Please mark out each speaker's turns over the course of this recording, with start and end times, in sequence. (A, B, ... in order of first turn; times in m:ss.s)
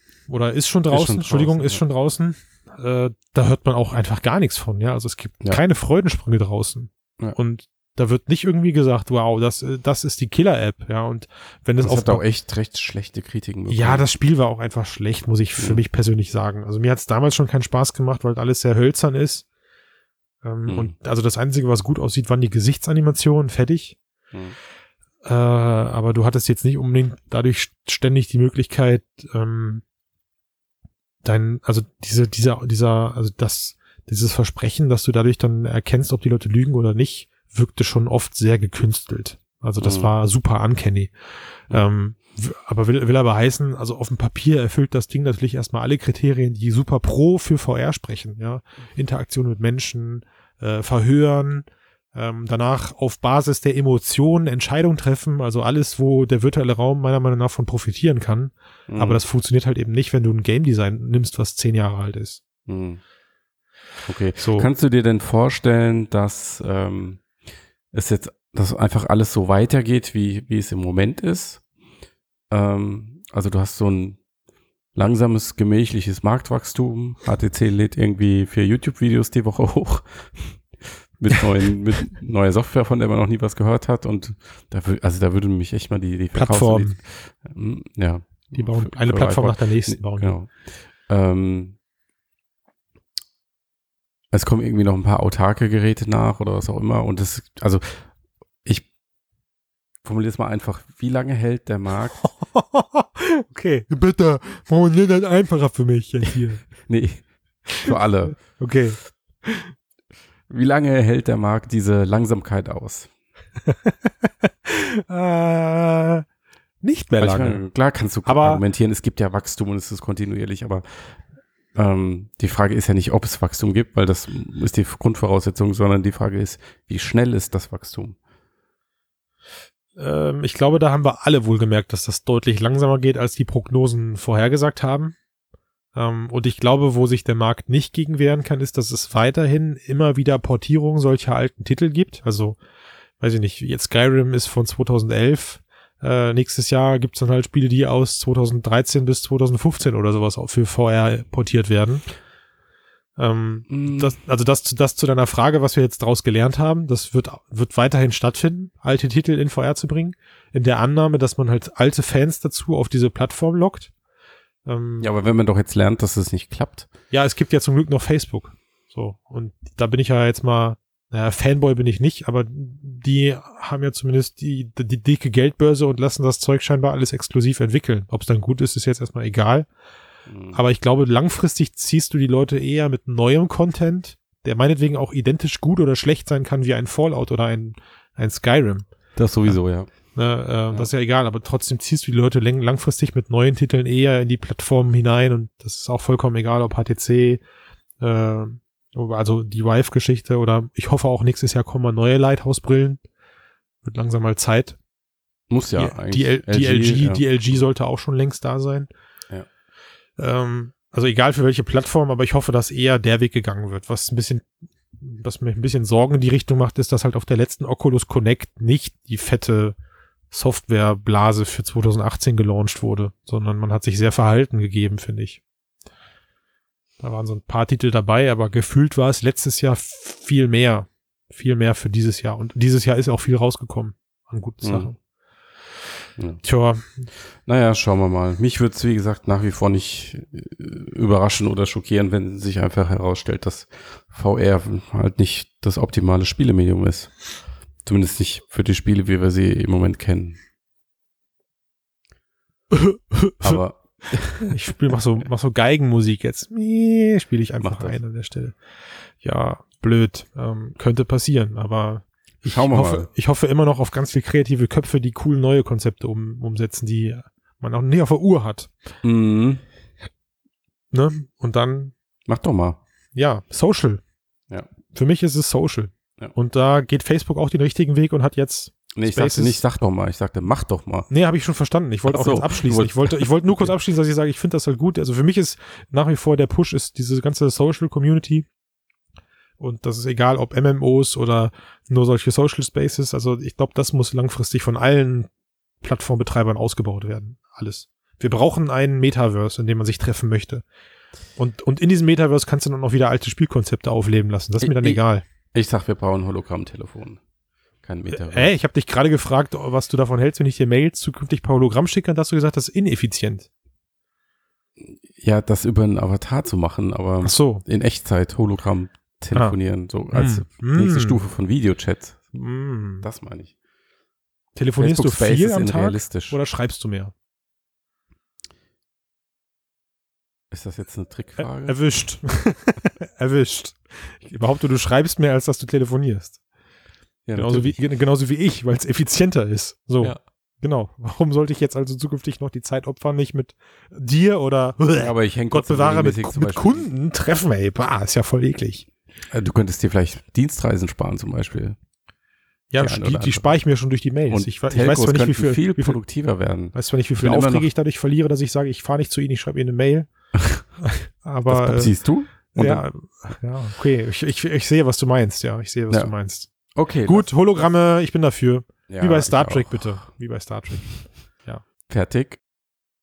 0:00.3-0:12.2 A
0:00.9-0:01.8 B
0:11.8-0:14.1 B
0:13.7-0:19.5 A
0:20.4-0:24.0 A
0:20.7-0:20.9 B
0:25.2-0:29.8 A
0:31.2-0:41.1 A
0:39.8-0:40.1 B
0:41.7-1:02.4 A
0:58.9-0:59.2 B
1:02.7-1:03.0 B
1:04.0-1:07.2 B
1:04.4-1:04.7 A
1:07.9-1:11.6 B
1:12.5-1:14.2 B
1:15.0-1:30.5 B
1:26.3-1:27.0 A
1:28.5-1:30.4 A
1:31.1-1:31.8 B
1:34.3-1:38.0 B
1:40.0-1:42.3 B
1:42.2-1:46.7 A
1:46.8-1:47.2 B
1:47.8-1:49.7 A
1:47.8-1:48.4 B
1:50.5-1:53.1 B
1:53.7-1:56.2 A
1:56.8-1:57.6 A
1:57.2-2:00.8 B
1:58.2-1:58.6 A
2:01.8-2:08.2 B
2:10.0-2:15.2 A
2:16.0-2:22.6 A
2:23.2-2:32.0 A
2:33.2-2:43.9 A
2:33.7-2:34.1 B
2:44.7-2:45.1 A
2:45.0-2:46.9 B
2:47.1-2:59.7 A
3:00.3-3:00.6 B
3:00.5-3:08.9 A
3:09.2-3:09.9 B
3:10.2-3:17.4 A
3:18.0-3:23.0 A
3:23.8-3:24.8 A
3:25.5-3:27.6 B
3:25.8-3:28.9 A
3:30.2-3:39.8 A
3:40.3-3:45.4 A
3:47.0-3:55.0 A
3:54.6-3:54.9 B
3:56.4-3:57.1 A
3:57.4-4:07.1 B
4:07.8-4:10.4 B
4:12.7-4:13.6 A
4:13.4-4:14.5 B
4:14.4-4:18.6 A
4:17.6-4:18.0 B
4:19.2-4:28.7 A
4:22.4-4:23.1 B
4:29.0-4:29.6 B
4:30.9-4:31.9 A
4:32.3-4:32.8 B
4:33.2-4:34.0 A
4:34.9-4:39.6 A
4:39.0-4:41.1 B
4:41.1-4:48.5 A
4:42.1-4:43.7 B
4:49.6-4:55.3 A
4:55.8-5:00.6 A
5:01.4-5:05.2 A
5:04.6-5:05.0 B
5:05.5-5:07.2 B
5:07.8-5:08.5 B
5:08.1-5:13.5 A
5:14.8-5:22.3 B
5:17.2-5:17.6 A
5:20.1-5:21.2 A
5:22.3-5:23.1 A
5:23.0-5:23.5 B
5:24.6-5:27.1 A
5:24.8-5:26.4 B
5:30.5-5:31.8 B
5:31.4-5:36.4 A
5:37.3-5:37.8 B
5:37.4-5:48.9 A
5:45.0-5:46.9 B
5:49.3-5:51.8 B
5:52.7-5:56.0 A
5:52.8-5:53.6 B
5:54.3-5:57.7 B
5:56.7-6:00.1 A
6:00.4-6:00.6 B
6:00.8-6:01.9 A
6:01.5-6:02.9 B
6:02.5-6:06.5 A
6:06.8-6:07.3 B
6:07.1-6:11.6 A
6:08.9-6:10.0 B
6:11.9-6:12.4 B